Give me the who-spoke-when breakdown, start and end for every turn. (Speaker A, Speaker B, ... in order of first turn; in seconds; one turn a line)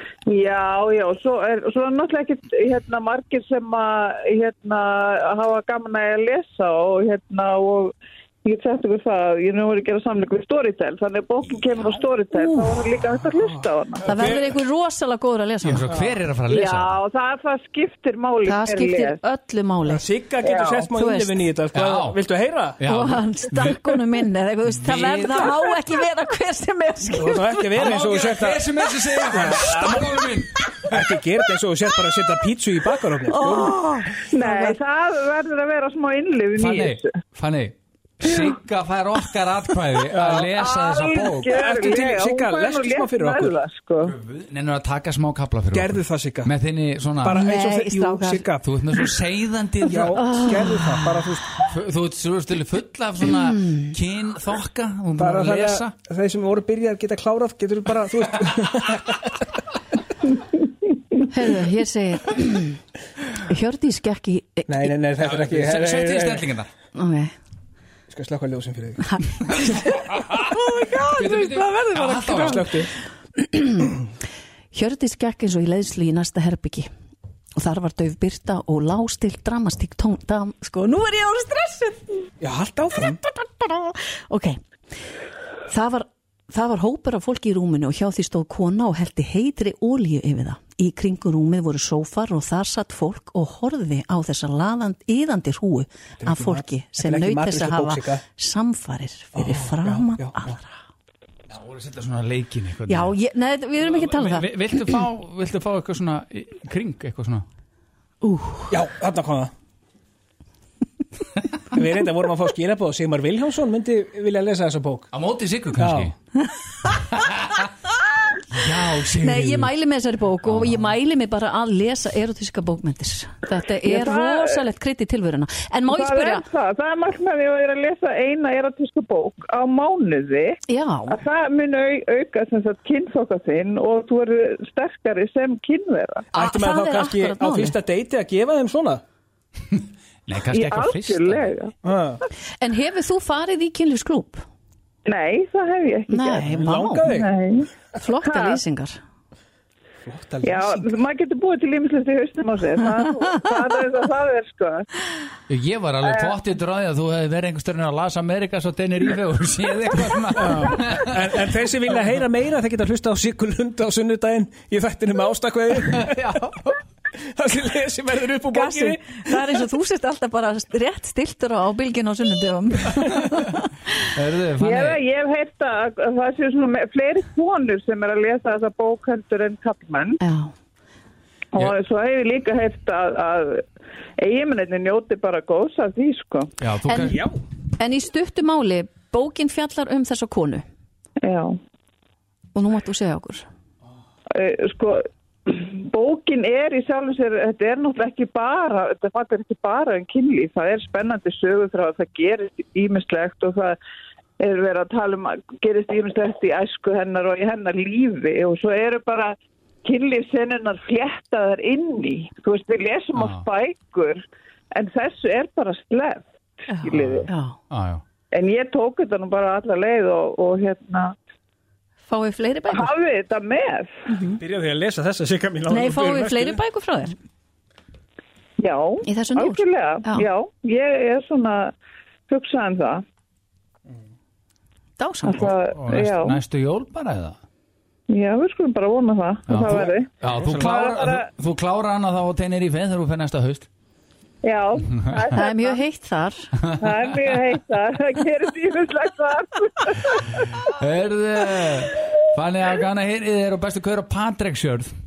Speaker A: 0.3-14.2
Speaker B: 12.3-12.8
Speaker B: 14.1-15.9
Speaker C: 14.1-14.5
Speaker D: 15.6-16.9
Speaker A: 16.5-19.2
Speaker B: 18.4-20.1
Speaker C: 19.9-22.8
Speaker A: 20.4-20.9
Speaker B: 20.9-21.4
Speaker D: 21.7-22.2
Speaker D: 22.8-23.8
Speaker B: 22.9-27.9
Speaker D: 24.8-25.6
Speaker C: 27.1-30.1
Speaker D: 27.8-31.1
Speaker C: 30.9-33.8
Speaker B: 33.3-34.8
Speaker A: 34.2-37.1
Speaker D: 36.6-41.5
Speaker C: 40.1-40.5
Speaker A: 40.6-44.1
Speaker C: 41.5-43.5
Speaker D: 44.0-47.4
Speaker C: 45.7-46.5
Speaker C: 47.2-48.8
Speaker B: 47.3-48.5
Speaker D: 48.6-50.9
Speaker C: 49.9-51.5
Speaker B: 50.1-51.6
Speaker D: 51.6-55.9
Speaker C: 55.2-59.4
Speaker B: 61.2-62.8
Speaker B: 63.3-64.9
Speaker C: 64.7-66.5
Speaker D: 65.2-66.7
Speaker B: 66.9-67.3
Speaker C: 68.1-69.6
Speaker B: 69.0-69.8
Speaker D: 69.6-70.4
Speaker C: 70.4-72.9
Speaker B: 70.6-72.4
Speaker D: 71.2-72.7
Speaker B: 73.4-74.0
Speaker B: 74.7-76.9
Speaker B: 77.6-82.3
Speaker C: 82.4-83.2
Speaker B: 83.2-84.6
Speaker B: 85.7-100.8
Speaker C: 96.2-98.2
Speaker C: 99.4-100.4
Speaker D: 101.5-103.2
Speaker B: 102.9-104.6
Speaker D: 103.8-107.5
Speaker B: 108.2-108.8
Speaker C: 108.7-109.5
Speaker C: 111.7-115.1
Speaker D: 115.1-116.1
Speaker C: 115.8-116.1
Speaker D: 117.0-117.7
Speaker D: 118.5-119.7
Speaker B: 119.2-126.4
Speaker A: 123.8-124.6
Speaker A: 125.9-136.3
Speaker B: 130.7-131.2
Speaker C: 136.3-139.0
Speaker B: 136.3-137.8
Speaker D: 139.7-141.5
Speaker A: 140.5-141.7
Speaker C: 141.8-142.2
Speaker B: 142.6-144.4
Speaker A: 145.1-146.4
Speaker B: 146.1-147.1
Speaker C: 146.5-147.3
Speaker A: 147.1-148.6
Speaker B: 147.9-149.0
Speaker C: 150.1-150.9
Speaker A: 150.4-154.9
Speaker D: 155.5-161.4
Speaker A: 156.1-156.3
Speaker C: 160.4-166.2
Speaker D: 166.0-166.8
Speaker C: 167.2-169.4
Speaker B: 168.5-173.7
Speaker D: 174.0-175.0
Speaker A: 174.6-180.2
Speaker B: 180.2-180.5
Speaker A: 181.5-183.7
Speaker A: 184.2-186.5
Speaker D: 186.6-187.2
Speaker B: 186.8-187.2
Speaker C: 187.1-187.4
Speaker B: 187.8-190.6
Speaker A: 191.2-191.6
Speaker B: 192.6-193.5
Speaker A: 194.3-203.8
Speaker A: 204.4-217.3
Speaker B: 216.7-217.6
Speaker D: 216.9-218.0
Speaker A: 218.3-221.2
Speaker B: 222.1-222.9
Speaker A: 222.7-224.0
Speaker B: 224.1-224.4
Speaker C: 224.4-226.6
Speaker B: 225.7-227.2
Speaker A: 228.6-231.7
Speaker B: 229.0-230.3
Speaker A: 232.3-233.0
Speaker B: 235.0-235.5
Speaker A: 235.2-236.4
Speaker D: 235.4-237.4
Speaker A: 238.1-241.3
Speaker D: 239.5-243.7
Speaker A: 244.4-245.8
Speaker B: 245.3-246.5
Speaker D: 246.6-247.0
Speaker A: 246.8-250.7
Speaker D: 250.6-254.9